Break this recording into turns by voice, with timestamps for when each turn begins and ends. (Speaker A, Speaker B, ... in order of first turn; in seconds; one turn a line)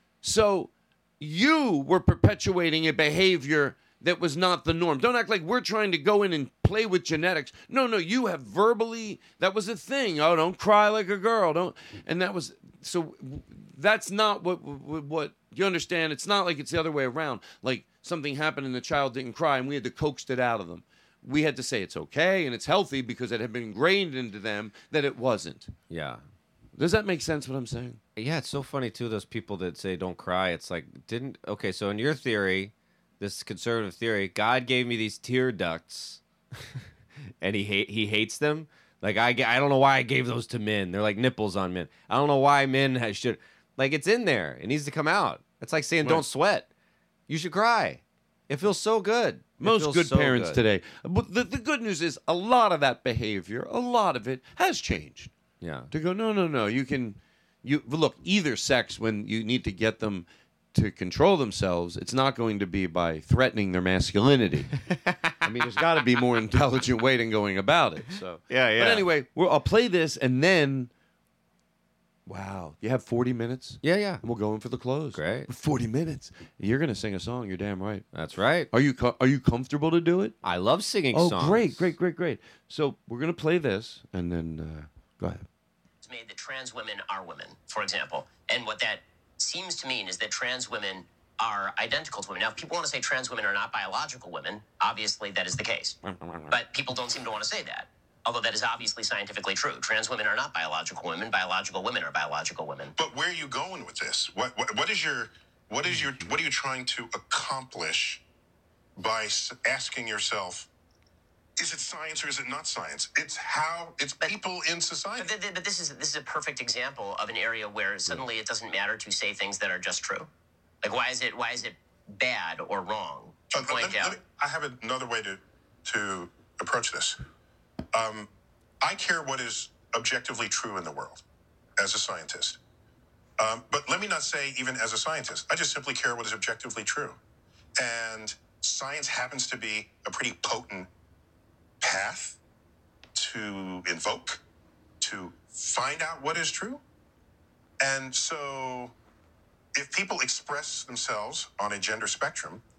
Speaker A: 0.2-25.7
Speaker B: 25.9-26.2
Speaker A: 26.8-28.0
Speaker B: 28.2-36.2
Speaker B: 37.4-46.7
Speaker B: 47.3-50.6
Speaker A: 49.6-55.3
Speaker B: 55.6-55.9
Speaker A: 55.9-64.7
Speaker B: 64.9-65.3
Speaker A: 65.4-70.9
Speaker B: 68.5-69.1
Speaker A: 72.3-78.1
Speaker B: 73.8-74.2
Speaker B: 75.1-75.5
Speaker B: 78.1-78.7
Speaker A: 78.7-80.3
Speaker B: 80.4-81.9
Speaker A: 81.1-85.5
Speaker C: 86.0-96.0
Speaker A: 96.0-96.5
Speaker C: 96.5-102.9
Speaker D: 103.0-108.2
Speaker A: 105.9-106.2
Speaker D: 109.0-110.7
Speaker D: 111.6-115.3
Speaker C: 115.2-120.3
Speaker C: 120.8-124.2
Speaker D: 123.5-127.2
Speaker D: 127.9-128.3
Speaker D: 128.8-131.2
Speaker D: 131.8-132.6
Speaker D: 133.4-137.2
Speaker D: 137.8-140.9
Speaker D: 141.8-142.4
Speaker D: 143.2-144.4
Speaker D: 145.0-146.8
Speaker D: 147.8-148.9
Speaker D: 149.7-152.6